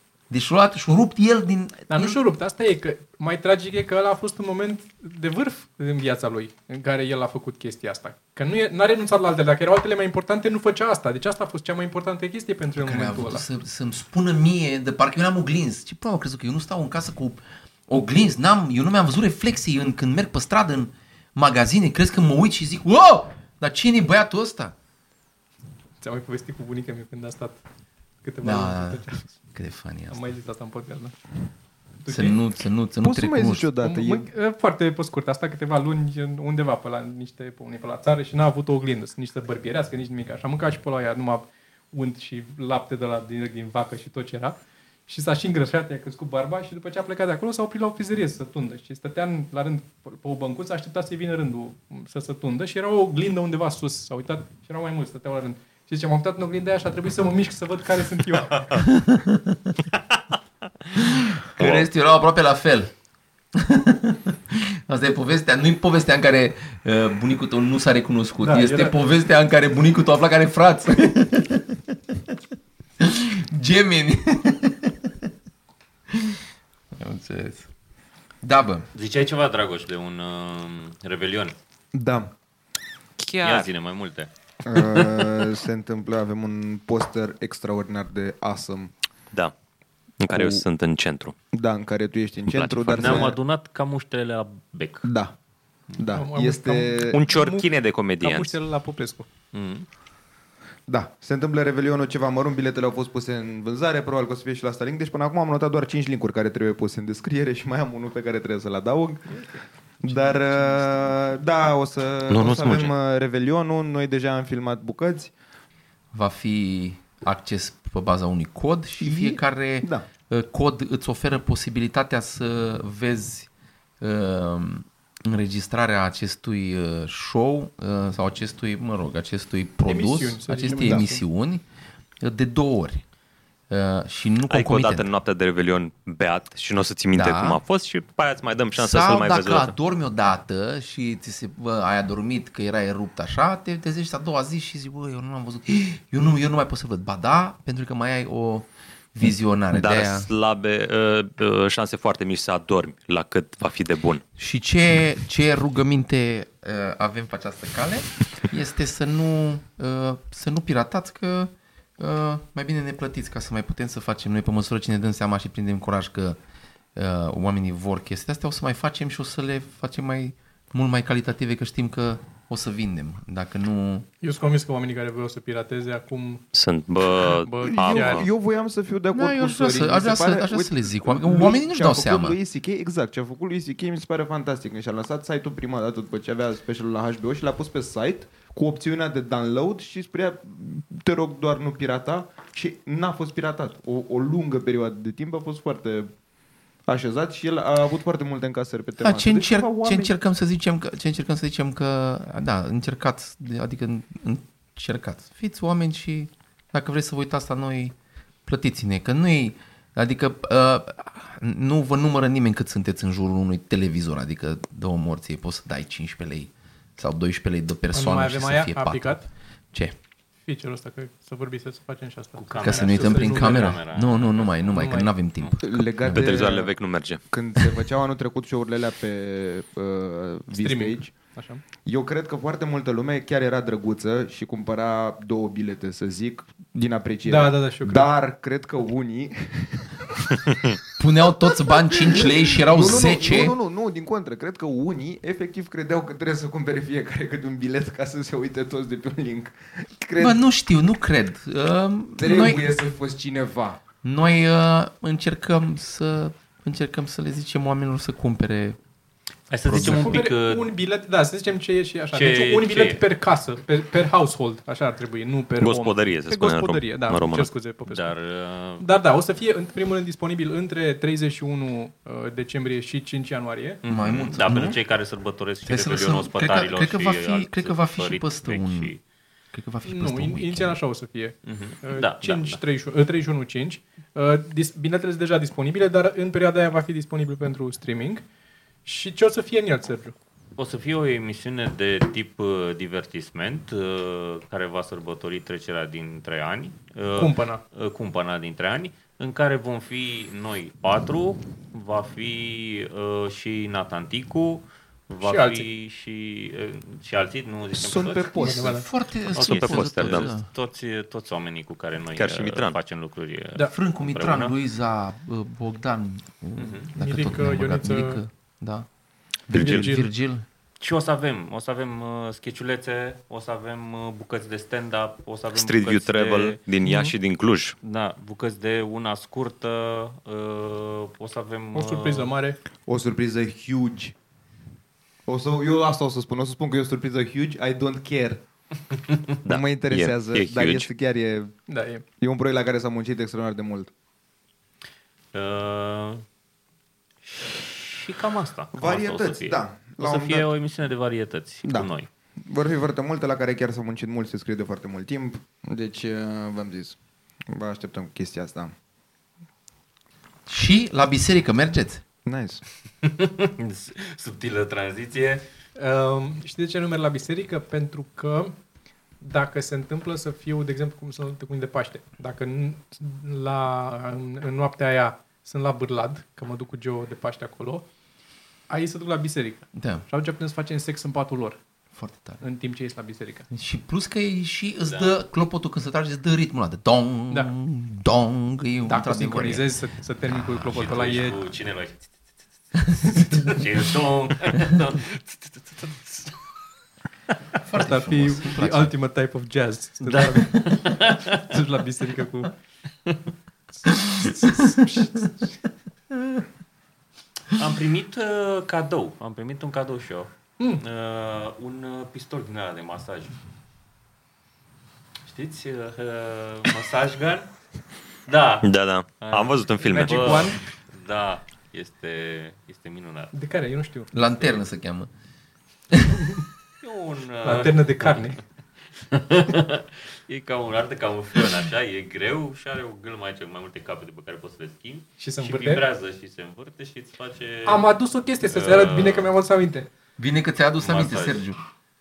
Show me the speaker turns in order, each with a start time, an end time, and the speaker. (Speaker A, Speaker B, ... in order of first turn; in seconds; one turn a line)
Speaker A: 0.3-2.2
Speaker B: 1.9-13.4
Speaker A: 12.8-24.7
Speaker B: 26.0-27.6
Speaker B: 28.2-29.4
Speaker A: 28.4-29.0
Speaker A: 29.5-30.2
Speaker B: 30.1-31.1
Speaker B: 32.0-32.4
Speaker A: 32.1-33.7
Speaker C: 33.0-34.3
Speaker B: 33.8-44.6
Speaker B: 45.1-58.6
Speaker A: 58.9-59.7
Speaker A: 61.6-62.9
Speaker D: 61.6-61.9
Speaker A: 63.5-72.2
Speaker B: 68.4-69.0
Speaker A: 73.0-75.3
Speaker A: 76.1-76.4
Speaker A: 76.9-77.7
Speaker A: 78.4-78.9
Speaker E: 78.9-81.5
Speaker C: 81.9-82.3
Speaker D: 83.2-83.7
Speaker E: 83.4-84.3
Speaker C: 84.7-88.9
Speaker D: 90.2-91.3
Speaker C: 90.3-90.6
Speaker C: 91.5-93.4
Speaker D: 92.5-93.3
Speaker E: 92.9-95.1
Speaker C: 95.0-95.3
Speaker C: 96.0-97.2
Speaker B: 96.1-97.7
Speaker D: 97.1-98.5
Speaker B: 98.2-99.3
Speaker E: 99.5-99.9
Speaker C: 100.9-109.4
Speaker C: 110.0-115.3
Speaker B: 110.1-111.0
Speaker D: 112.3-112.9
Speaker A: 116.1-123.5
Speaker C: 119.0-120.1
Speaker A: 124.0-131.6
Speaker B: 129.9-131.2
Speaker C: 130.7-131.1
Speaker A: 132.2-133.0
Speaker A: 133.7-135.1
Speaker D: 134.5-139.7
Speaker A: 137.1-137.6
Speaker A: 138.8-150.3
Speaker D: 149.7-154.2
Speaker A: 154.4-166.4
Speaker A: 166.9-174.1
Speaker B: 174.2-176.4
Speaker D: 176.5-178.3
Speaker B: 177.4-178.2
Speaker C: 177.6-196.1
Speaker A: 179.1-182.4
Speaker C: 196.9-200.1
Speaker A: 199.0-207.9
Speaker A: 208.4-219.9
Speaker B: 217.9-219.2
Speaker B: 220.4-223.8
Speaker E: 222.4-224.7
Speaker A: 222.6-226.3
Speaker B: 224.7-225.1
Speaker C: 225.6-231.1
Speaker D: 226.1-227.2
Speaker B: 230.5-231.6
Speaker C: 231.8-240.3
Speaker B: 237.2-238.1
Speaker A: 241.0-243.6
Speaker C: 241.9-250.4
Speaker A: 250.2-252.8
Speaker C: 252.2-253.8
Speaker A: 254.0-258.8
Speaker E: 259.5-260.7
Speaker A: 259.6-260.2
Speaker B: 259.7-268.1
Speaker E: 262.1-263.0
Speaker D: 265.6-267.5
Speaker E: 267.9-268.9
Speaker B: 268.8-273.8
Speaker E: 273.8-279.0
Speaker A: 273.9-274.8
Speaker A: 275.6-278.9
Speaker A: 279.5-280.8
Speaker B: 279.9-288.2
Speaker E: 281.4-282.6
Speaker B: 288.9-290.1
Speaker E: 290.6-308.4
Speaker B: 297.1-297.6
Speaker B: 305.2-305.7
Speaker C: 307.7-308.8
Speaker B: 308.4-308.9
Speaker A: 308.5-310.4
Speaker D: 309.4-310.3
Speaker E: 309.4-314.5
Speaker D: 312.1-312.8
Speaker A: 313.7-318.9
Speaker E: 316.6-316.9
Speaker B: 316.9-318.2
Speaker A: 319.5-320.4
Speaker D: 319.5-319.9
Speaker B: 319.5-320.1
Speaker E: 320.8-326.6
Speaker D: 325.5-327.7
Speaker B: 326.8-327.1
Speaker E: 327.8-332.3
Speaker B: 331.7-332.6
Speaker C: 332.9-334.1
Speaker C: 335.2-338.4
Speaker D: 339.4-340.9
Speaker C: 339.4-341.6
Speaker B: 341.7-342.1
Speaker C: 342.2-343.9
Speaker E: 345.3-346.2
Speaker E: 347.7-352.1
Speaker C: 348.7-350.5
Speaker C: 352.4-357.0
Speaker C: 357.5-358.7
Speaker A: 360.5-362.0
Speaker C: 362.2-362.6
Speaker E: 363.0-365.4
Speaker B: 365.8-368.6
Speaker B: 369.2-377.9
Speaker B: 378.7-381.6
Speaker A: 379.7-380.1
Speaker A: 381.9-382.4
Speaker B: 382.4-383.5
Speaker A: 383.5-389.7
Speaker E: 384.9-385.1
Speaker B: 388.9-391.4
Speaker E: 390.6-392.1
Speaker E: 392.7-396.4
Speaker A: 397.6-398.9
Speaker B: 397.8-402.5
Speaker E: 400.1-401.6
Speaker B: 404.1-405.5
Speaker A: 406.1-406.4
Speaker E: 407.6-413.4
Speaker E: 415.2-417.5
Speaker E: 418.3-423.3
Speaker D: 418.6-420.5
Speaker B: 419.9-420.6
Speaker B: 423.3-424.1
Speaker A: 424.1-425.1
Speaker A: 425.9-426.2
Speaker E: 426.8-428.3
Speaker B: 427.4-428.4
Speaker E: 429.0-437.9
Speaker B: 435.2-435.9
Speaker B: 437.6-439.9
Speaker E: 438.5-439.3
Speaker A: 440.2-441.6
Speaker E: 440.8-441.4